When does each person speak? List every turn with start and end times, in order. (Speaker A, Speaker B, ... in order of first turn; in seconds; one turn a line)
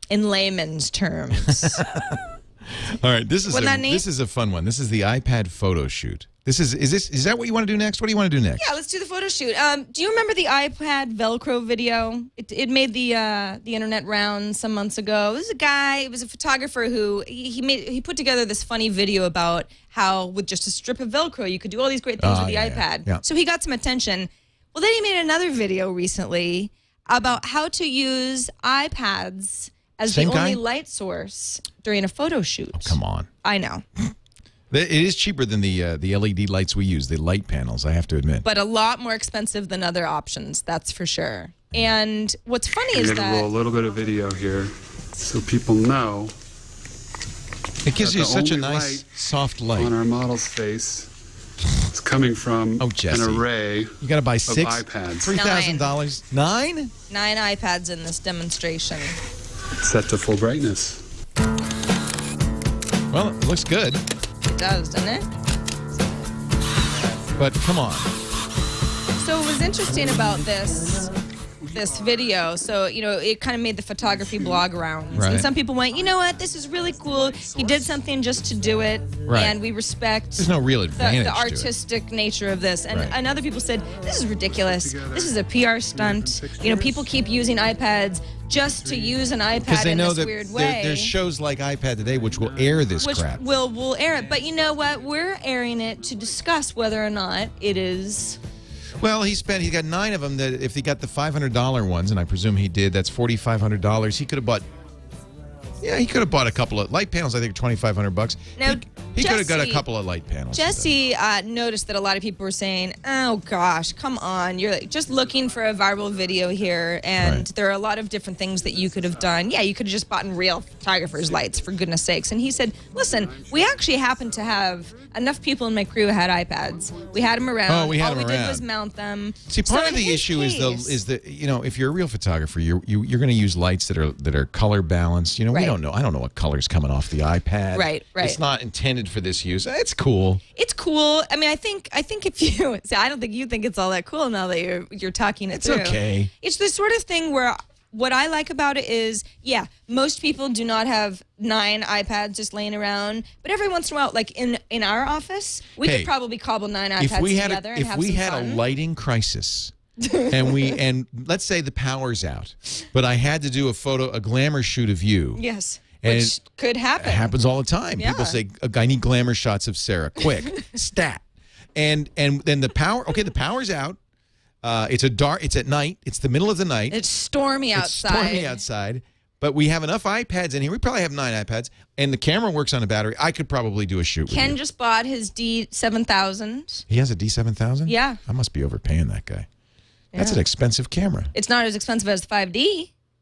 Speaker A: 0.1-2.0
Speaker B: 1.5-8.7
Speaker A: 3.5-4.0
Speaker A: 8.6-33.8
Speaker B: 22.2-23.2
Speaker B: 30.1-30.6
Speaker B: 32.8-33.3
Speaker B: 34.7-38.5
Speaker A: 38.4-43.5
Speaker C: 42.9-46.3
Speaker B: 47.8-49.9
Speaker C: 47.9-49.1
Speaker C: 49.7-51.1
Speaker C: 51.8-55.3
Speaker B: 52.8-56.9
Speaker A: 55.3-55.9
Speaker A: 57.1-59.2
Speaker C: 59.8-61.0
Speaker B: 63.1-64.0
Speaker A: 64.4-65.3
Speaker B: 67.4-68.1
Speaker A: 69.2-71.1
Speaker A: 71.6-91.1
Speaker B: 75.1-75.5
Speaker C: 77.3-77.9
Speaker B: 79.3-79.6
Speaker B: 80.4-81.7
Speaker B: 82.9-83.2
Speaker C: 84.5-87.2
Speaker C: 88.7-89.2
Speaker B: 89.6-93.4
Speaker C: 92.2-93.0
Speaker A: 93.0-98.4
Speaker B: 99.0-104.7
Speaker B: 105.8-111.0
Speaker A: 108.6-109.8
Speaker A: 110.5-131.0
Speaker B: 117.2-117.5
Speaker C: 121.1-121.5
Speaker C: 123.1-123.7
Speaker B: 127.7-128.7
Speaker B: 129.5-140.4
Speaker A: 135.5-135.8
Speaker A: 137.7-138.4
Speaker A: 140.6-158.6
Speaker B: 145.5-146.3
Speaker B: 155.8-156.1
Speaker B: 157.0-159.7
Speaker A: 160.0-160.8
Speaker B: 160.3-165.4
Speaker A: 165.4-167.3
Speaker B: 166.0-166.4
Speaker B: 167.0-171.2
Speaker A: 168.0-168.4
Speaker B: 171.8-174.0
Speaker B: 174.6-177.0
Speaker A: 176.9-178.6
Speaker B: 177.7-184.6
Speaker A: 184.3-186.8
Speaker B: 186.9-189.5
Speaker A: 187.9-188.2
Speaker A: 190.1-190.4
Speaker B: 190.2-191.3
Speaker A: 191.3-192.9